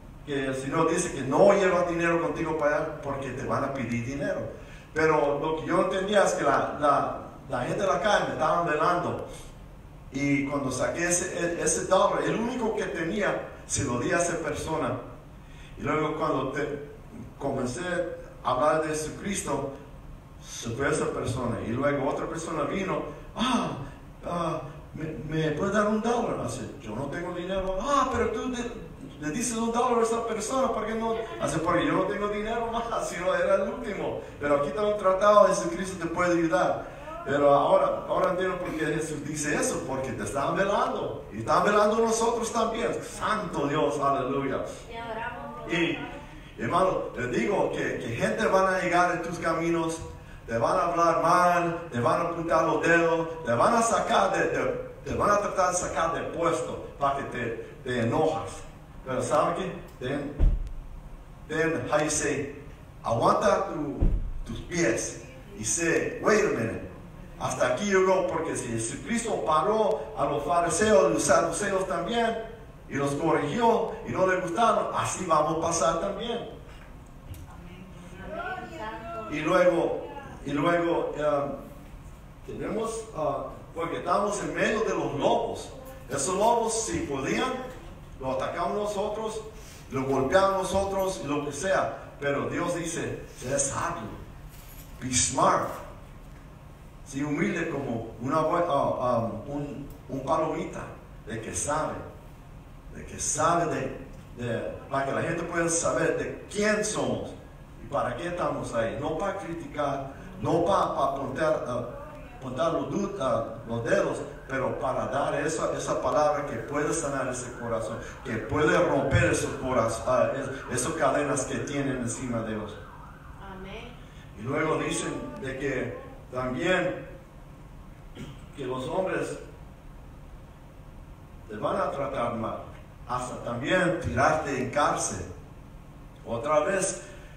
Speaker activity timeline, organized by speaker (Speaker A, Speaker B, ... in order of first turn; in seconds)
Speaker A: 0.2-9.2, 10.1-15.0, 15.8-16.8, 17.4-19.7, 20.4-44.6, 45.6-46.0, 46.6-60.3, 61.5-62.5, 63.0-76.5, 79.3-81.5, 82.5-87.6, 88.2-94.2, 95.0-95.7, 97.0-102.0, 102.9-122.8, 124.3-127.0, 128.5-129.4, 131.5-135.3, 136.2-137.0
Speaker B: 44.9-46.0, 78.1-79.4, 123.4-123.9